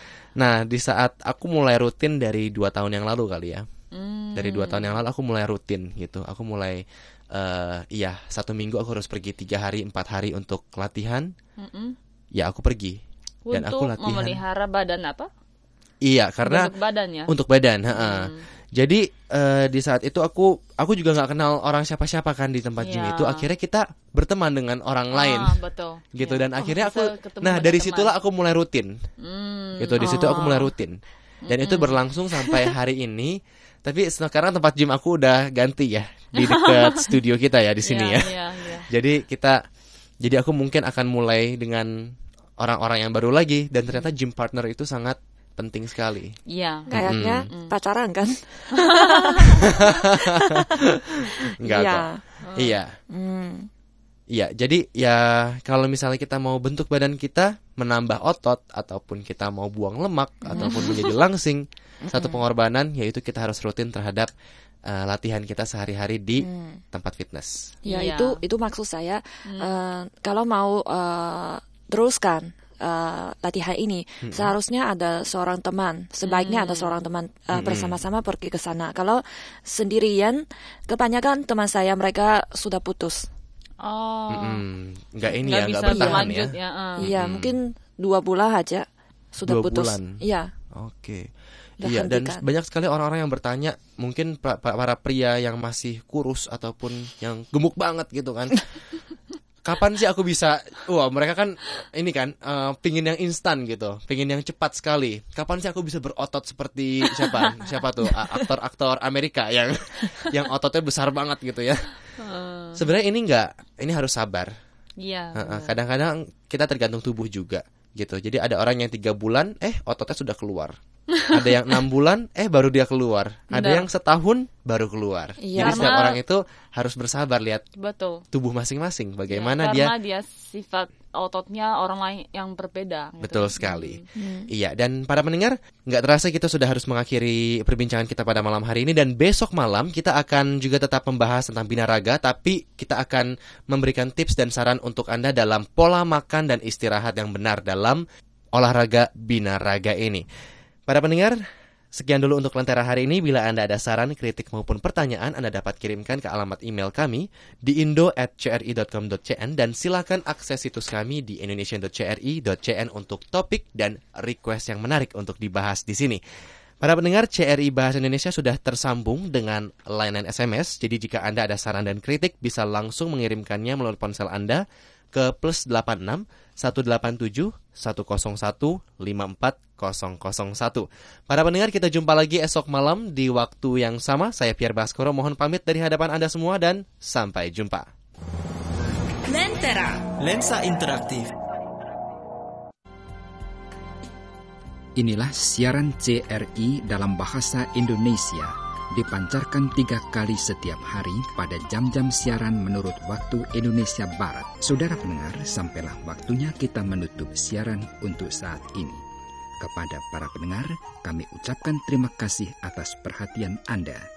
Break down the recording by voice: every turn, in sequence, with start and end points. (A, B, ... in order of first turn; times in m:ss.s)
0:00.4-0:03.6 A
0:03.9-0:05.0 B
0:04.3-0:11.3 A
0:11.6-0:12.0 B
0:12.4-0:13.0 A
0:13.5-0:15.3 B
0:13.5-0:14.4 A
0:16.0-0:16.7 A
0:16.4-0:17.3 B
0:17.3-0:25.6 A
0:17.9-0:18.4 B
0:22.8-0:23.4 B
0:25.1-0:28.1 B
0:26.1-0:28.9 A
0:29.2-0:30.7 B
0:29.8-0:31.0 A
0:31.5-0:32.7 B
0:31.5-0:39.6 A
0:36.4-0:37.1 B
0:37.8-0:38.9 B
0:40.2-0:41.9 A
0:42.6-0:46.3 A
0:46.5-0:47.7 B
0:46.9-0:49.7 C
0:47.0-0:47.5 A
0:48.7-0:49.6 B
0:49.6-0:52.9 A
0:50.2-0:50.6 C
0:51.6-0:52.2 C
0:52.4-0:52.8 B
0:53.1-0:53.7 C
0:54.3-1:04.3 A
1:00.4-1:00.9 C
1:00.5-1:01.1 B
1:02.0-1:02.4 C
1:04.9-1:07.7 A
1:06.4-1:06.8 C
1:07.8-1:23.3 C
1:07.9-1:08.4 B
1:09.4-1:09.8 B
1:14.2-1:14.5 A
1:16.2-1:16.9 B
1:17.5-1:18.0 A
1:23.8-1:24.6 B
1:24.3-1:26.5 A
1:25.4-1:27.0 B
1:25.9-1:26.3 C
1:27.0-1:30.5 C
1:27.0-1:27.6 A
1:29.4-1:30.2 A
1:30.7-1:31.3 A
1:31.8-1:32.4 C
1:31.8-1:38.8 A
1:39.6-1:51.9 A
1:47.2-1:47.7 B
1:52.2-1:52.8 B
1:52.8-1:54.5 A
1:55.0-1:55.7 B
1:55.3-2:00.7 A
2:01.1-2:01.5 B
2:01.3-2:07.6 A
2:03.5-2:03.9 B
2:05.4-2:06.0 C
2:05.6-2:06.2 B
2:07.8-2:08.2 B
2:08.3-2:09.9 A
2:09.3-2:14.0 B
2:13.2-2:28.0 A
2:14.2-2:14.5 C
2:28.5-2:30.2 A
2:30.9-2:31.4 A
2:31.9-2:46.2 A
2:46.8-3:07.9 A
3:09.2-3:11.3 D
3:15.0-3:29.0 E
3:29.6-3:34.0 E